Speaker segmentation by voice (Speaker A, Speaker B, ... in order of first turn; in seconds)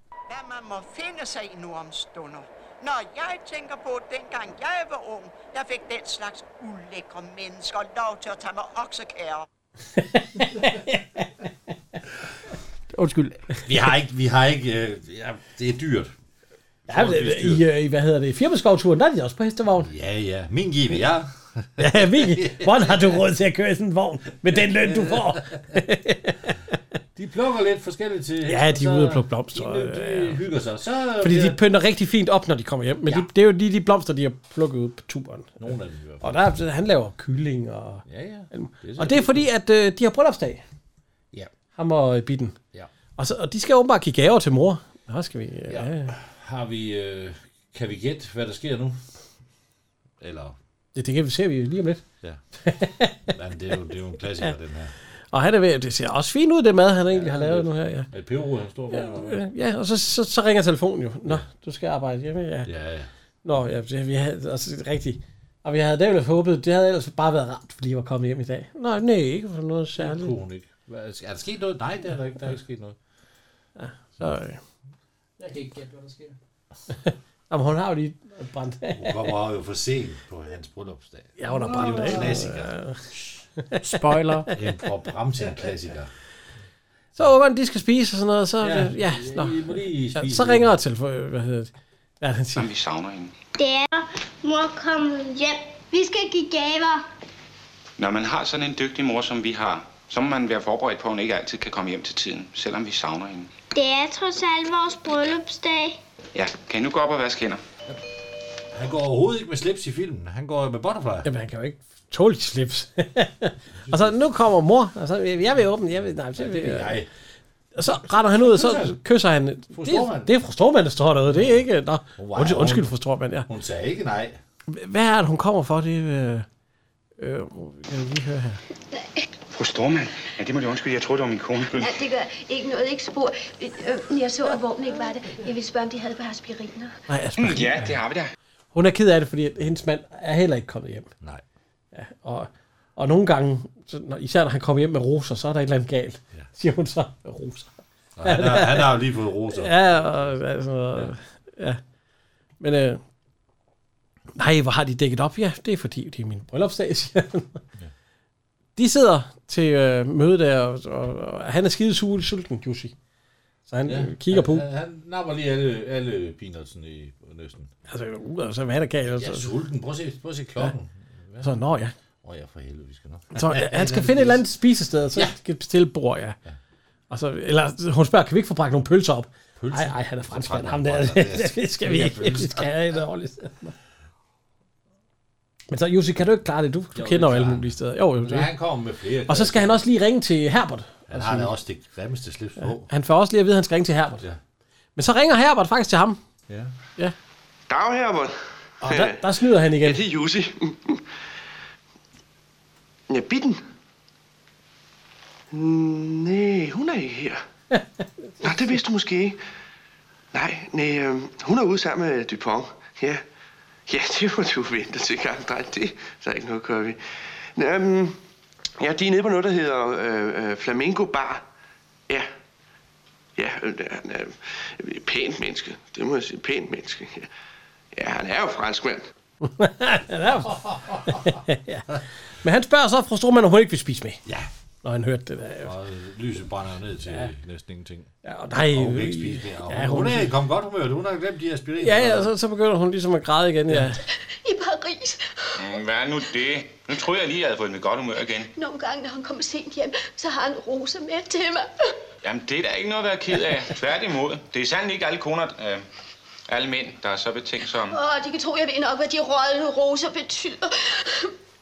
Speaker A: 0.3-9.4
Speaker B: 10.0-11.2, 16.9-19.9, 21.8-26.5, 28.5-30.4, 31.2-35.7, 36.2-40.6, 41.8-42.6, 43.2-46.1, 50.9-52.0, 52.6-53.3, 55.3-58.1, 58.9-62.7, 63.4-70.3, 73.8-74.6, 76.9-79.3, 81.4-83.1, 83.6-84.4, 87.2-92.7, 111.2-117.0, 117.7-123.5, 124.7-126.5, 127.2-128.6, 137.1-138.0, 138.7-141.1, 141.9-149.0, 149.5-151.8, 152.6-153.0, 154.3-157.6, 158.8-162.9, 163.7-164.6, 167.9-169.5, 171.4-171.9, 173.3-176.4, 177.1-183.7, 185.7-188.5, 189.3-191.5, 192.6-194.2, 194.9-196.2, 198.8-200.0, 229.4-234.2, 234.8-235.7, 238.2-240.3, 241.8-244.0
Speaker C: 12.9-13.4, 75.4-76.3, 81.5-82.3, 83.8-84.5
Speaker D: 13.6-16.1, 16.9-17.6, 19.8-23.2, 24.5-25.8, 27.1-31.6, 35.6-36.4, 38.0-39.5, 45.7-49.0, 50.2-50.5, 53.3-54.9, 57.1-59.4, 62.6-63.1, 70.0-73.0, 78.9-82.7, 84.5-86.1, 88.6-90.7, 108.7-111.3, 113.9-114.1, 116.3-117.1, 117.8-119.0, 119.7-120.3, 121.3-121.6, 122.2-122.9, 123.5-124.4, 148.2-150.3, 163.8-167.7, 169.1-171.5, 172.2-174.4, 179.6-182.7, 186.9-189.8, 191.1-192.9, 235.6-238.1, 238.7-242.3
Speaker E: 92.5-93.3, 98.0-103.5, 106.3-107.6, 129.5-132.0, 137.4-138.3, 245.6-248.5, 252.2-255.8, 256.5-258.0
Speaker F: 93.5-97.0, 103.7-106.0
Speaker G: 131.8-136.9, 244.3-245.4, 248.6-251.7, 257.9-261.3
Speaker H: 197.7-201.1, 203.1-203.6, 205.5-207.4, 208.4-209.4, 210.3-213.2, 213.9-217.0, 217.5-218.2, 218.8-221.4, 223.4-227.3, 227.9-229.1